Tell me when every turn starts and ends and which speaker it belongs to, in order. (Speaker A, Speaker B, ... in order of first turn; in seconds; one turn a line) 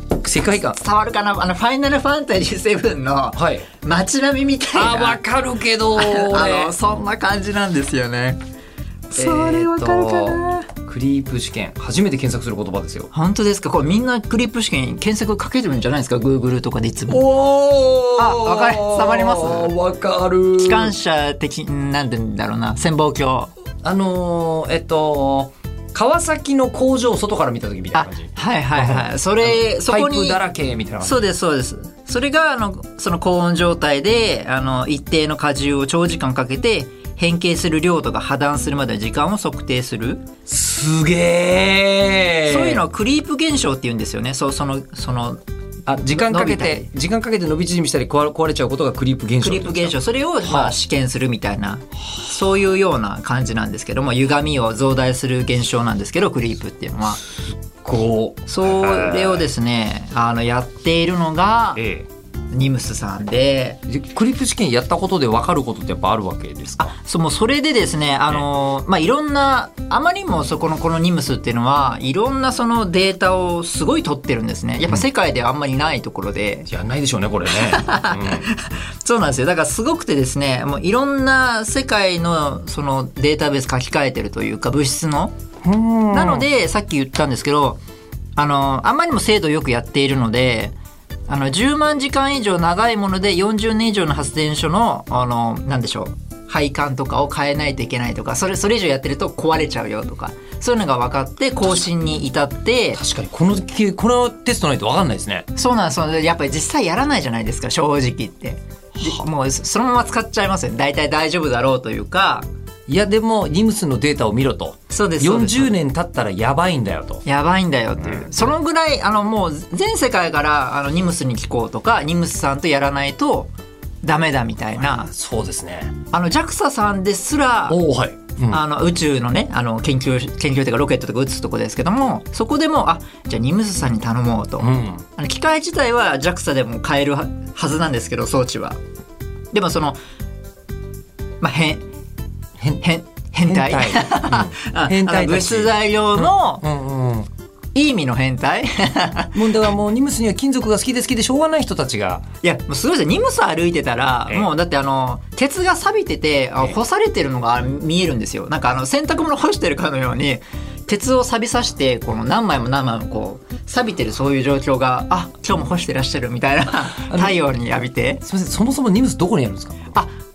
Speaker A: 0.2-0.8
Speaker B: 0.8-5.2
Speaker A: 3.4-3.7
Speaker A: 4.7-6.7
Speaker B: 6.0-8.4
Speaker B: 9.1-10.7
Speaker A: 9.2-13.1
Speaker B: 13.1-17.2
Speaker A: 17.1-20.9
Speaker B: 18.2-19.8
Speaker B: 20.6-23.5
Speaker A: 23.8-31.2
Speaker B: 27.9-30.4
Speaker B: 31.0-40.2
Speaker A: 40.5-42.8
Speaker B: 42.5-45.4
Speaker A: 45.9-50.8
Speaker B: 46.0-46.9
Speaker B: 49.4-57.2
Speaker A: 57.3-59.5
Speaker B: 58.5-61.8
Speaker A: 61.8-62.1
Speaker B: 62.5-63.8
Speaker A: 63.9-66.9
Speaker B: 66.8-76.7
Speaker A: 76.7-78.5
Speaker B: 77.5-85.3
Speaker A: 85.6-86.5
Speaker B: 86.1-87.8
Speaker B: 88.4-90.7
Speaker B: 91.3-103.0
Speaker A: 103.0-105.5
Speaker B: 105.5-112.5
Speaker A: 112.9-117.2
Speaker B: 114.9-115.8
Speaker B: 117.2-123.5
Speaker A: 118.1-118.5
Speaker B: 124.0-125.1
Speaker A: 125.1-126.0
Speaker B: 126.1-127.8
Speaker A: 127.7-128.6
Speaker B: 128.5-138.8
Speaker A: 134.6-135.0
Speaker B: 139.5-140.0
Speaker B: 141.4-141.8
Speaker B: 142.8-146.6
Speaker A: 143.4-147.3
Speaker B: 147.8-149.4
Speaker A: 149.3-152.2
Speaker B: 152.4-168.2
Speaker A: 166.9-167.4
Speaker A: 168.2-169.9